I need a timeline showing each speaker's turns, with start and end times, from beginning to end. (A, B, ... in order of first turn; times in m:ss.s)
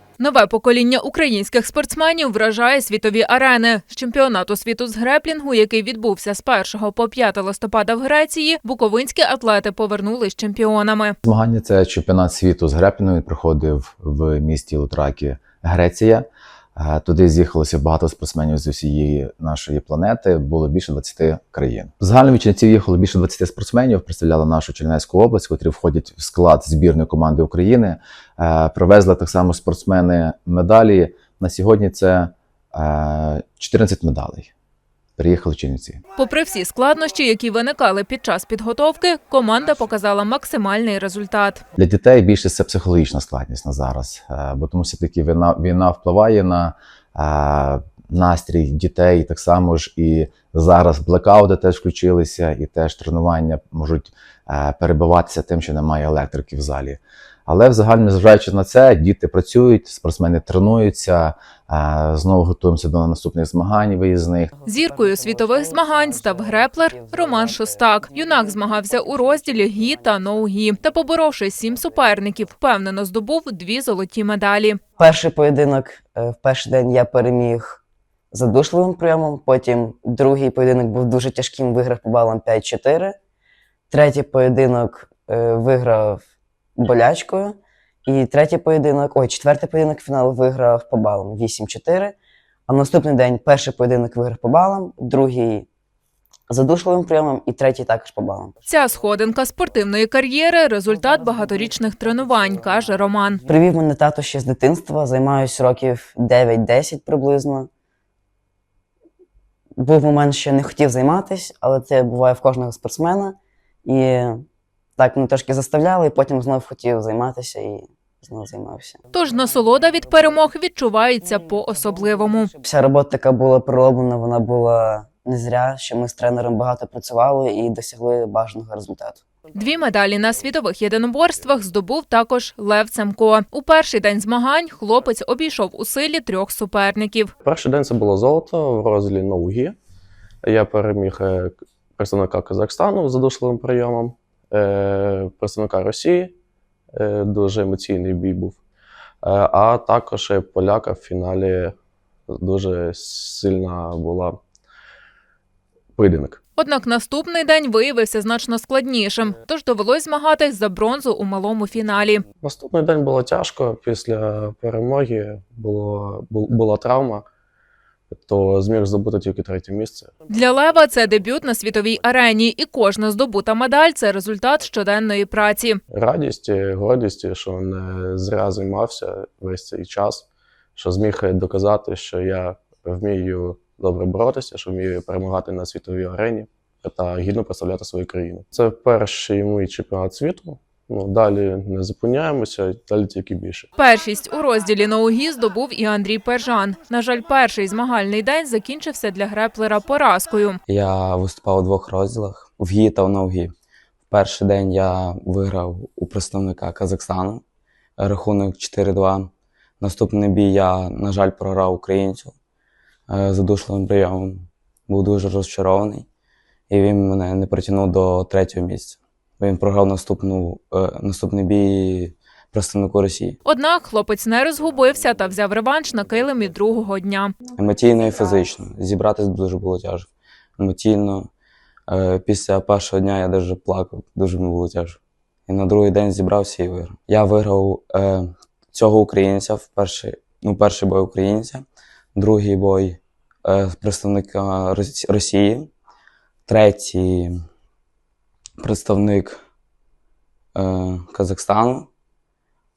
0:00.2-0:11.2 A
0:11.2-0:16.2 B
0:16.8-0:34.5 B
0:35.2-0:36.0 B
0:36.1-0:41.6 A
0:41.8-1:04.5 B
1:04.5-1:10.3 C
1:04.6-1:14.8 A
1:15.0-1:23.2 C
1:23.9-1:26.2 C
1:26.8-1:32.2 C
1:32.7-1:35.7 C
1:36.5-1:38.6 C
1:38.6-1:43.4 A
1:43.4-1:47.7 C
1:49.8-1:54.4 C
1:55.0-1:59.0 C
1:59.1-2:02.5 A
2:02.6-2:09.2 C
2:09.5-2:17.3 A
2:17.4-2:19.8 D
2:20.4-2:26.3 D
2:26.9-2:28.6 D
2:29.2-2:31.7 D
2:32.3-2:34.4 D
2:36.0-2:36.4 D
2:36.6-2:42.2 A
2:42.4-2:47.2 D
2:48.1-2:50.3 D
2:50.3-2:55.8 A
2:55.9-3:13.7 D
3:13.8-3:20.6 A
3:20.7-3:23.5 E
3:24.1-3:27.4 E
3:28.0-3:32.4 E
3:33.1-3:36.1 E
3:36.7-3:43.4 E
3:43.4-3:47.4 A
3:47.5-3:51.3 E
3:51.9-4:05.7 E
4:06.4-4:07.4 E
4:08.6-4:09.4 E
4:10.5-4:11.9 E